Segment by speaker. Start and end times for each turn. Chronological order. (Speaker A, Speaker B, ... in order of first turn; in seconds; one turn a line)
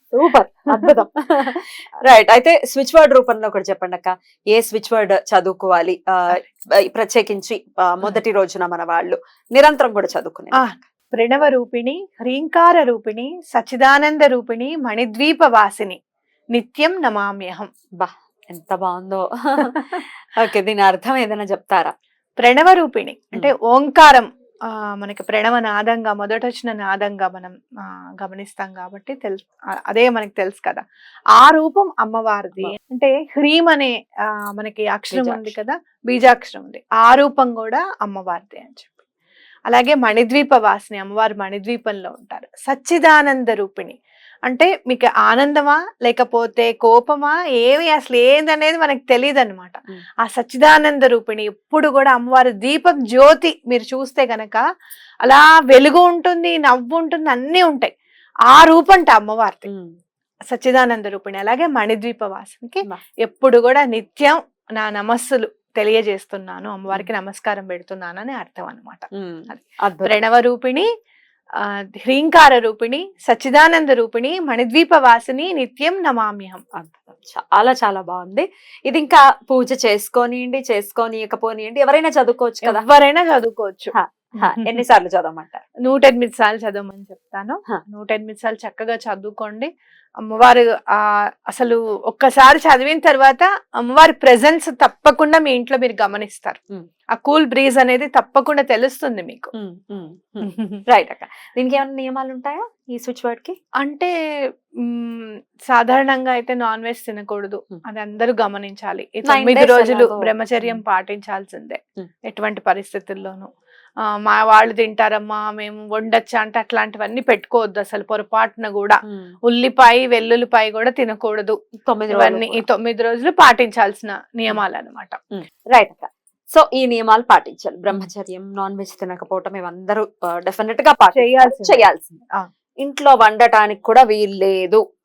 Speaker A: 0.1-10.7
Speaker B: 10.5-16.0
Speaker B: 16.5-17.7
Speaker A: 18.0-21.9
Speaker B: 22.4-24.3
Speaker B: 25.0-30.8
Speaker B: 31.4-33.9
Speaker B: 34.6-39.0
Speaker A: 35.1-35.5
Speaker B: 39.7-54.6
Speaker B: 55.2-57.9
Speaker B: 58.5-59.7
Speaker A: 59.6-59.9
Speaker B: 60.5-70.8
Speaker A: 69.1-70.2
Speaker B: 72.0-76.6
Speaker A: 76.8-82.8
Speaker B: 82.7-84.8
Speaker A: 83.9-85.6
Speaker B: 85.8-89.7
Speaker B: 90.3-96.6
Speaker B: 97.1-99.5
Speaker A: 99.5-103.6
Speaker B: 100.4-100.8
Speaker B: 103.8-104.1
Speaker B: 104.9-113.5
Speaker A: 109.2-110.8
Speaker B: 114.2-121.6
Speaker A: 119.1-119.3
Speaker A: 121.8-122.7
Speaker B: 122.1-125.2
Speaker A: 125.3-132.2
Speaker B: 131.1-131.8
Speaker A: 132.8-134.8